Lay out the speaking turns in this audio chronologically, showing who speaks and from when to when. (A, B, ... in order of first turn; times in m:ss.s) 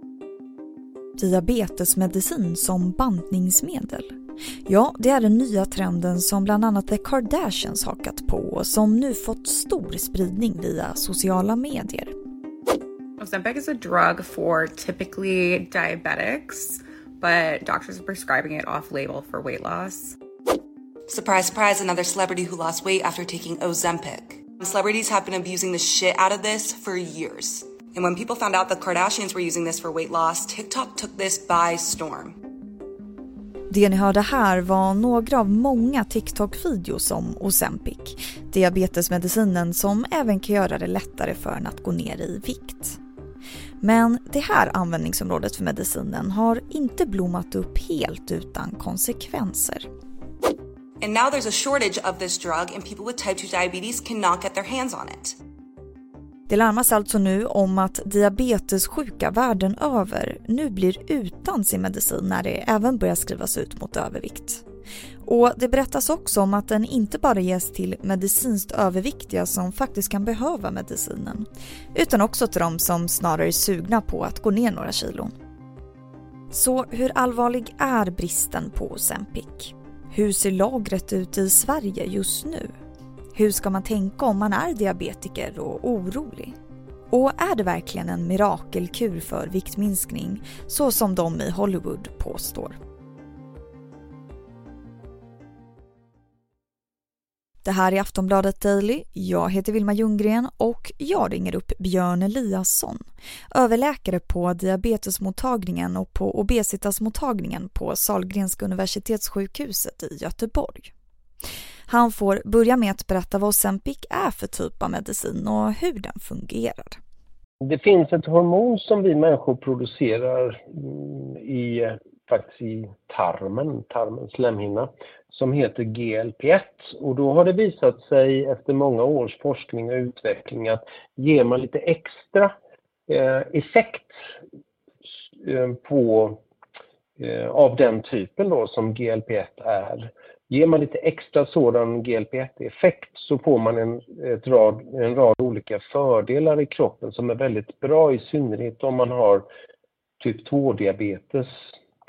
0:01.2-0:04.1 A
0:04.7-0:12.1 A
0:13.2-0:20.2 B
0:21.1-0:32.3 C
0:33.7-0:43.0 A
0:43.8-0:49.9 A
0:51.0-0:55.3 C
0:56.5-1:04.6 A
1:05.2-1:15.3 A
1:16.5-1:22.7 A
1:23.4-1:26.6 A
1:27.1-1:32.8 A
1:37.6-1:50.9 A
1:51.9-1:57.0 A
1:57.6-2:12.6 D
2:13.1-2:14.2 D
2:15.4-2:16.4 D
2:17.2-2:29.5 D
2:30.2-2:31.5 D